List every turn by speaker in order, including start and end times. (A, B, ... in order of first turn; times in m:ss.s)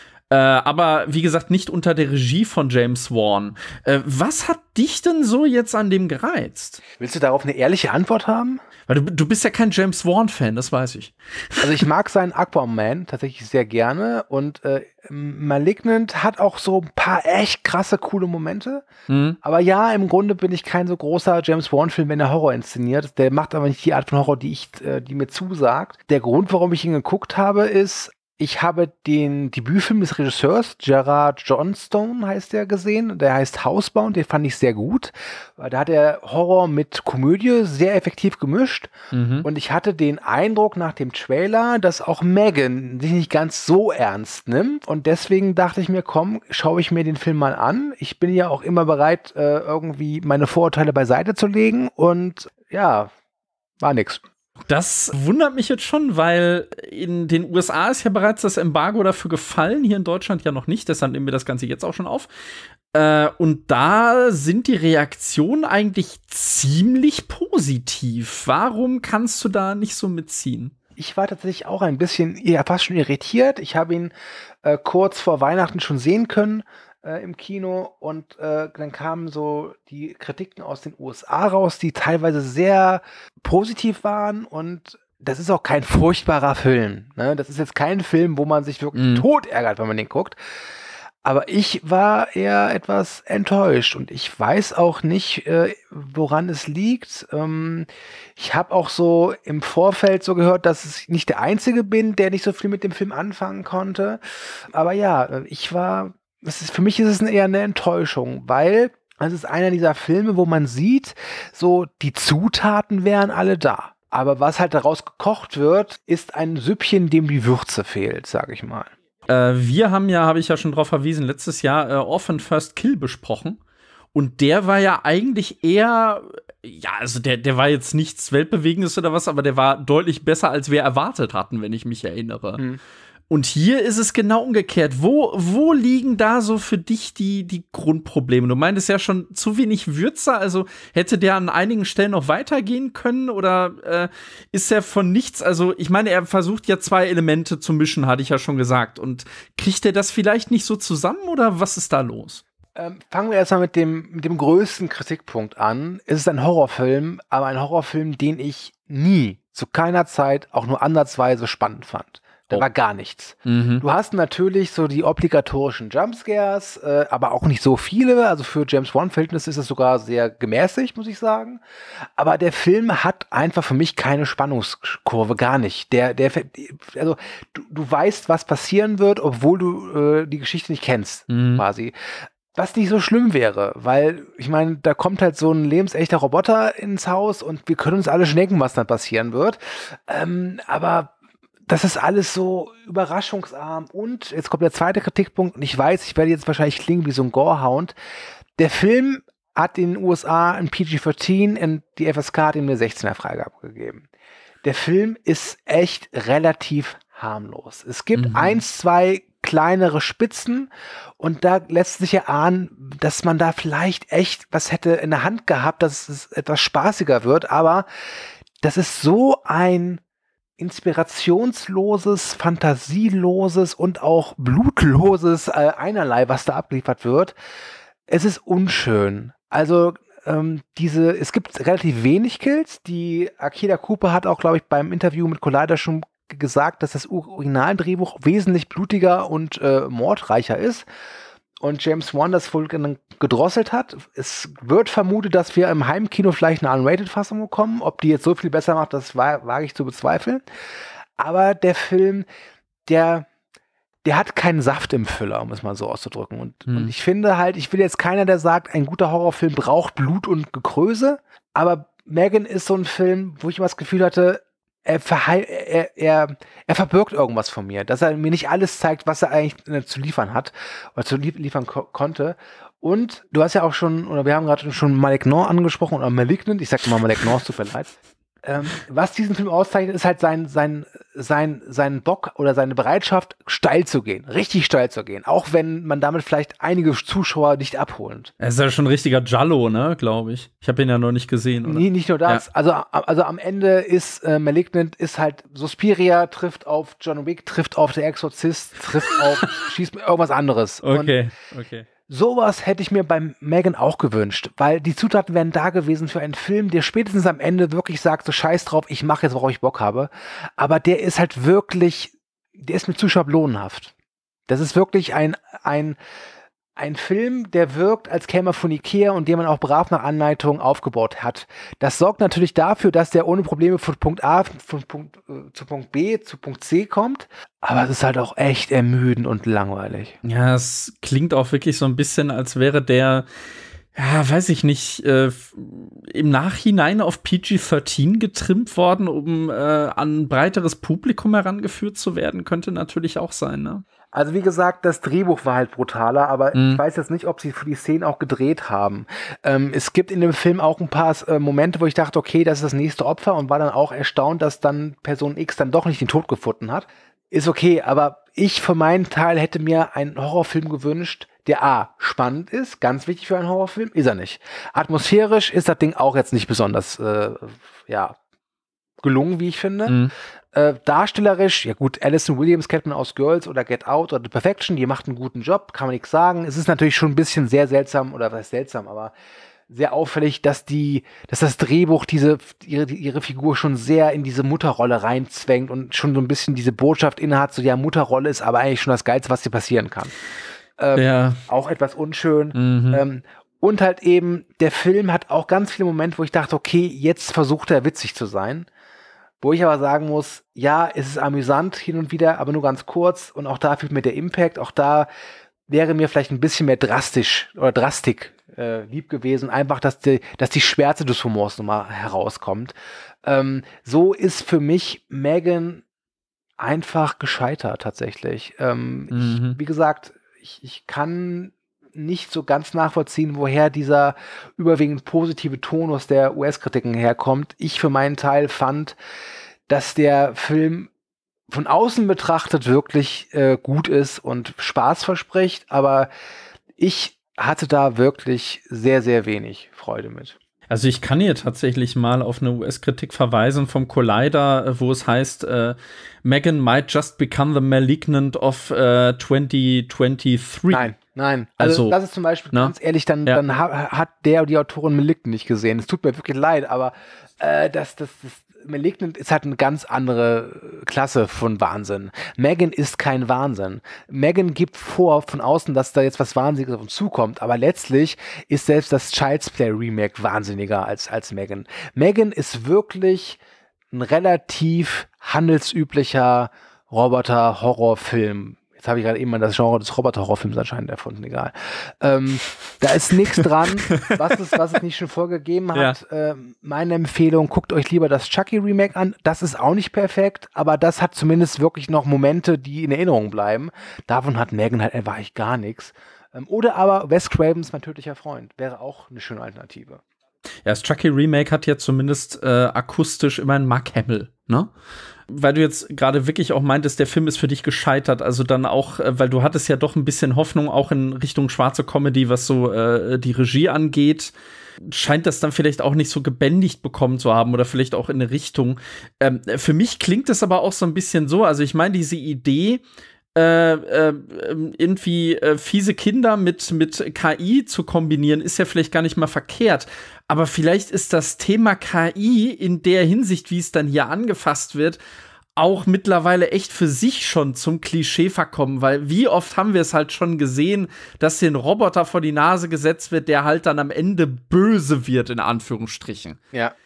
0:00.3-0:06.8 A
0:06.9-0:08.6 B
0:08.9-0:11.7 A
0:11.6-0:18.9 B
0:19.1-0:19.4 A
0:19.4-0:38.9 B
0:39.1-0:39.5 A
0:39.4-0:53.1 B
0:53.8-0:54.2 B
0:54.7-1:02.3 A
1:02.9-1:10.7 A
1:11.0-1:14.1 B
1:14.6-1:30.4 B
1:29.0-1:29.2 A
1:31.2-1:58.9 B
1:59.3-2:03.6 A
2:04.1-2:12.7 A
2:13.3-2:32.4 A
2:32.8-2:51.6 B
2:43.5-2:43.8 A
2:52.2-3:02.0 B
3:01.3-3:01.6 A
3:02.5-3:11.1 B
3:11.7-3:18.0 B
3:18.6-3:24.1 B
3:24.6-3:37.9 B
3:28.2-3:28.6 A
3:38.6-3:40.0 B
3:40.6-3:47.4 B
3:48.1-4:00.9 B
4:01.6-4:10.4 B
4:11.2-4:12.3 B
4:12.9-4:13.3 B
4:14.0-4:48.3 B
4:48.4-4:52.4 A
4:51.6-5:01.2 B
5:00.8-5:01.9 A
5:02.1-5:13.9 B
5:14.5-5:16.0 B
5:16.8-5:30.2 B
5:30.2-5:33.3 A
5:34.0-5:43.8 A
5:44.1-6:08.2 B
5:46.5-5:46.8 A
6:09.0-6:10.0 B
6:09.9-6:10.1 A
6:10.5-6:19.1 B
6:19.7-6:30.1 B
6:30.8-6:38.7 B
6:31.0-6:31.4 A
6:32.6-6:33.0 A
6:39.4-6:45.1 B
6:45.7-6:55.8 B
6:56.6-7:09.0 B
6:59.1-6:59.6 A
7:09.7-7:10.9 B
7:11.5-7:16.1 B
7:16.8-7:20.4 B
7:20.7-7:30.9 A
7:30.7-7:53.4 B
7:31.6-7:32.0 A
7:32.5-7:33.4 A
7:53.9-8:20.0 B
8:03.9-8:04.2 A
8:20.6-8:24.7 A
8:25.3-8:34.3 A
8:34.9-8:42.8 A
8:43.4-8:55.0 A
8:55.6-9:06.4 A